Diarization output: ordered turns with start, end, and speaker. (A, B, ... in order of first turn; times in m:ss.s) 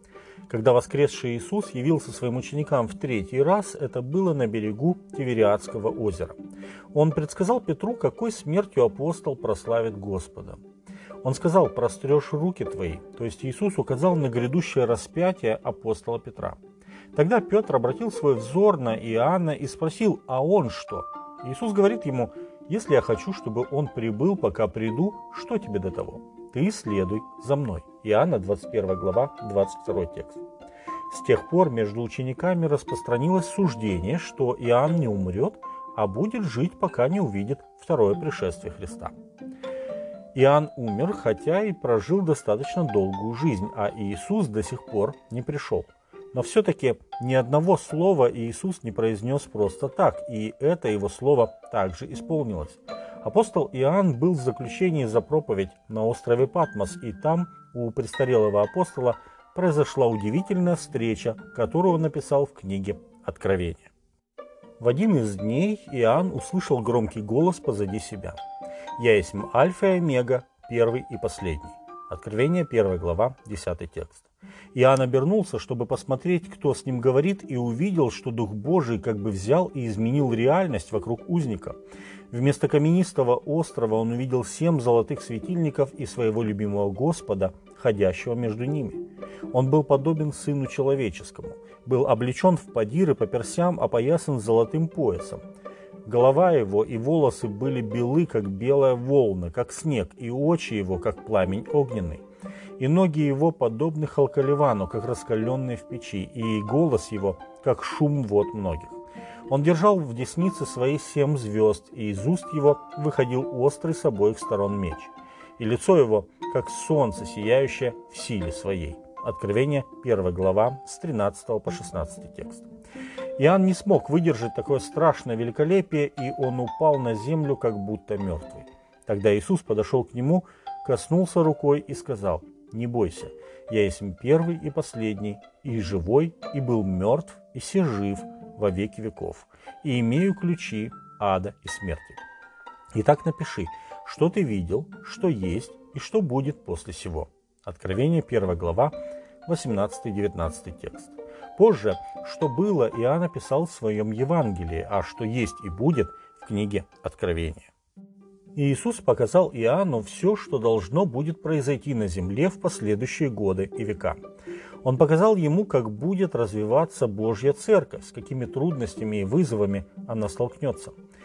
0:00.5-0:06.4 A
0:06.9-0:10.6 A
0:11.2-0:16.6 A
0:17.1-0:30.4 A
0:31.1-0:39.1 A
0:40.3-1:03.9 A
1:04.8-1:08.4 A
1:09.0-1:21.8 A
1:22.3-1:35.4 A
1:36.0-1:42.2 A
1:42.8-2:02.7 A
2:03.4-2:22.2 A
2:22.9-2:28.9 A
2:29.5-2:37.7 A
2:38.6-2:44.2 A
2:44.8-2:51.0 A